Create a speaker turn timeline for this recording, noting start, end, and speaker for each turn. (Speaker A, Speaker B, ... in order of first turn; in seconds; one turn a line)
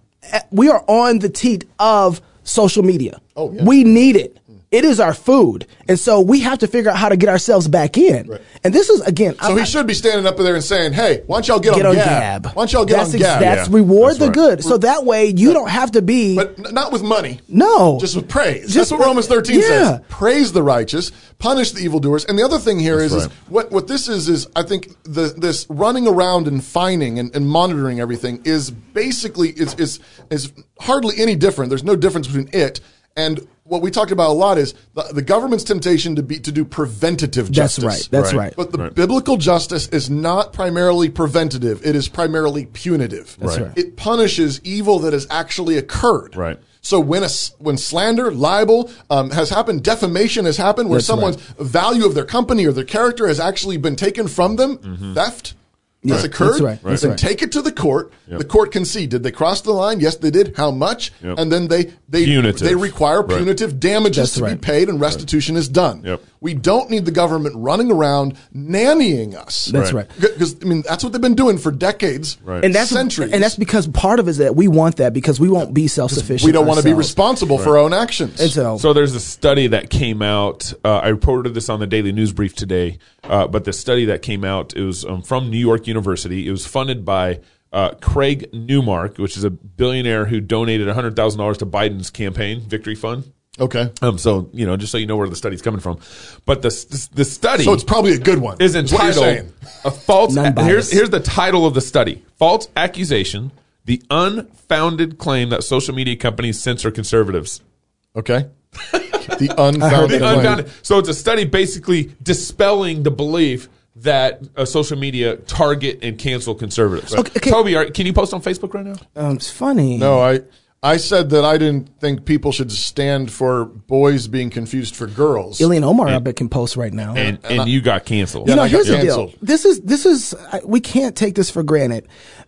Speaker A: 0.3-9.7
Speaker B: 3.4-3.8
Speaker B: 9.4-13.6
Speaker A: 11.7-16.5
Speaker C: 13.4-14.4
Speaker B: 16.3-17.4
Speaker A: 17.5-18.1
Speaker B: 18.0-73.5
Speaker A: 18.7-20.0
Speaker C: 22.9-23.3
Speaker A: 37.5-38.6
Speaker C: 38.1-38.9
Speaker C: 43.4-43.6
Speaker A: 43.4-43.7
Speaker C: 46.3-46.6
Speaker A: 50.9-51.4
Speaker C: 54.9-55.1
Speaker A: 56.0-57.2
Speaker C: 56.1-57.0
Speaker C: 62.2-63.5
Speaker A: 64.1-64.6
Speaker A: 69.7-70.1
Speaker A: 72.6-77.1
Speaker B: 76.1-78.5
Speaker A: 78.4-78.8
Speaker C: 78.8-93.2
Speaker B: 93.6-93.9
Speaker C: 94.0-97.8
Speaker B: 97.6-99.5
Speaker C: 98.6-107.6
Speaker A: 100.3-101.0
Speaker B: 108.1-108.5
Speaker C: 108.9-119.0
Speaker B: 109.2-110.6
Speaker A: 109.8-110.6
Speaker A: 117.1-117.6
Speaker A: 119.2-120.2
Speaker B: 120.0-125.7
Speaker A: 125.6-127.2
Speaker B: 127.1-127.7
Speaker C: 127.1-129.0
Speaker B: 128.4-129.3
Speaker A: 128.4-132.1